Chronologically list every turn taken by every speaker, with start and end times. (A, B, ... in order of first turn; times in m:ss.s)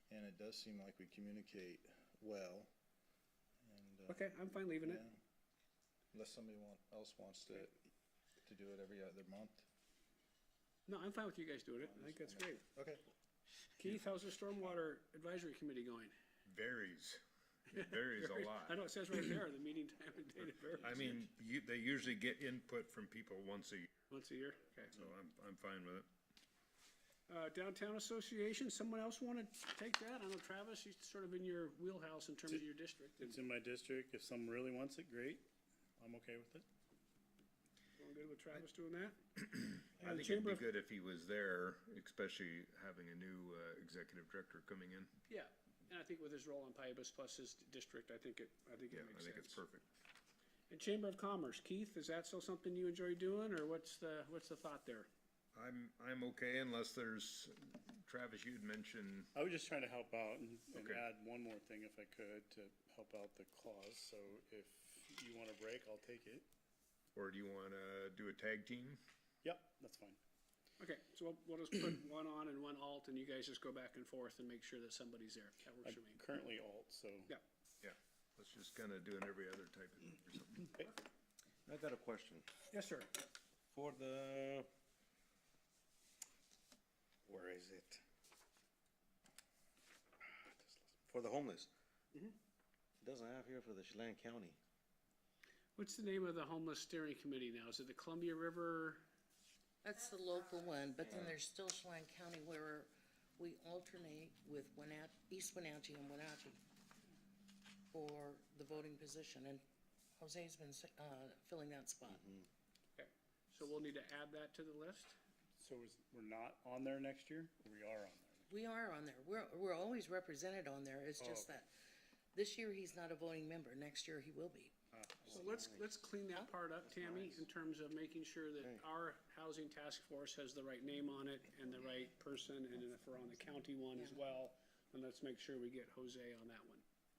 0:00.1-0:02.7 A
0:03.6-0:04.2 A
0:04.1-0:05.0 B
0:04.8-0:05.2 A
0:06.1-0:07.8 A
0:08.4-0:09.6 A
0:10.9-0:12.6 B
0:11.8-0:13.0 A
0:13.8-0:16.1 B
0:16.4-0:18.8 C
0:17.7-0:21.2 B
0:20.8-0:23.9 C
0:24.1-0:25.0 B
0:24.9-0:26.1 C
0:27.3-0:33.4 B
0:33.2-0:35.4 D
0:36.0-0:36.6 D
0:38.0-0:39.2 B
0:39.9-0:40.6 B
0:40.0-0:45.1 C
0:45.3-0:49.6 B
0:48.9-0:49.8 C
0:50.7-0:55.1 B
0:55.5-0:59.3 C
0:59.3-1:06.5 D
1:00.8-1:01.0 C
1:07.1-1:09.0 C
1:09.4-1:10.2 D
1:10.8-1:16.2 B
1:15.8-1:17.3 D
1:17.8-1:20.7 C
1:21.6-1:22.5 E
1:22.7-1:23.1 B
1:23.7-1:24.7 E
1:27.3-1:28.0 E
1:30.4-1:31.0 D
1:31.1-1:31.7 E
1:33.0-1:34.6 E
1:35.8-1:39.0 B
1:39.8-1:46.6 F
1:47.9-1:49.6 F
1:50.2-1:52.3 F
1:53.0-1:55.2 B
1:55.6-1:58.5 D
1:58.5-2:01.7 F
2:01.2-2:01.5 D
2:02.3-2:04.7 F
2:04.9-2:05.5 D
2:05.2-2:16.8 B
2:14.0-2:14.2 F